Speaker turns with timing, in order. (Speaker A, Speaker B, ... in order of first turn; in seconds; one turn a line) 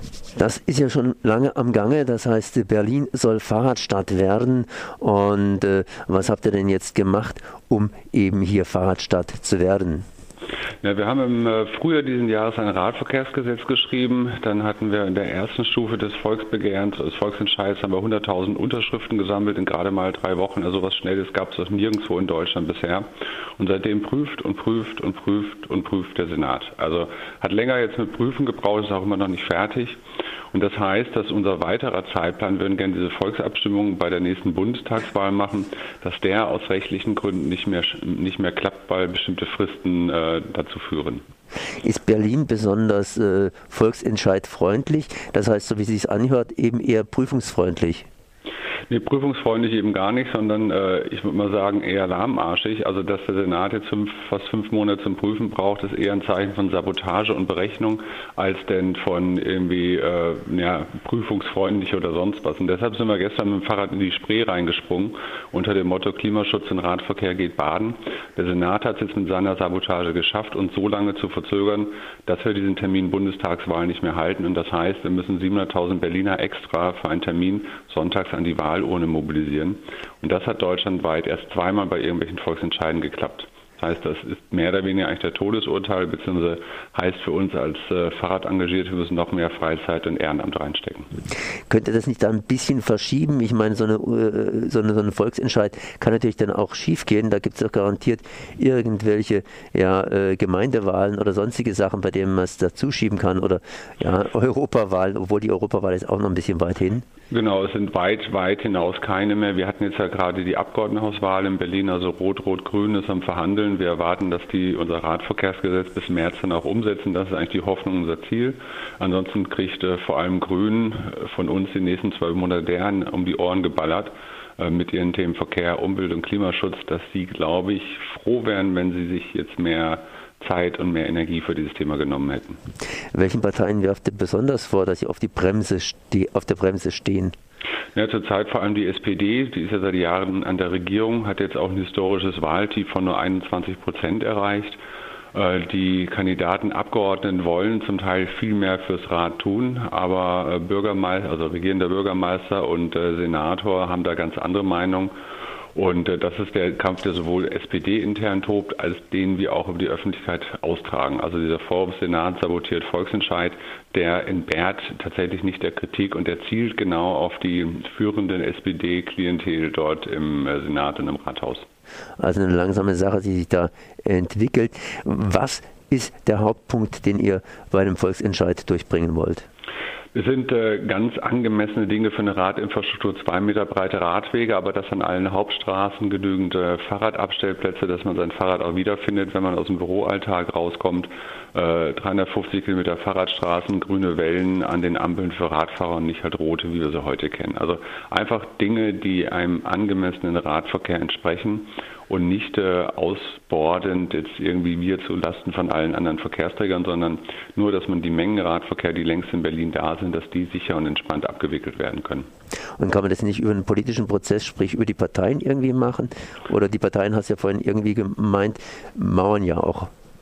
Speaker A: 0.3-10.1
Speaker B: 10.8-23.1
Speaker B: 23.6-30.0
Speaker B: 30.5-41.2
Speaker A: 41.8-48.1
Speaker B: 48.9-91.1
Speaker A: 91.7-107.0
Speaker B: 107.3-132.6
Speaker A: 133.1-137.3
Speaker B: 137.9-144.8
Speaker B: 145.3-155.1
Speaker B: 155.8-171.6
Speaker A: 172.2-179.5
Speaker B: 180.1-212.3
Speaker A: 212.8-219.9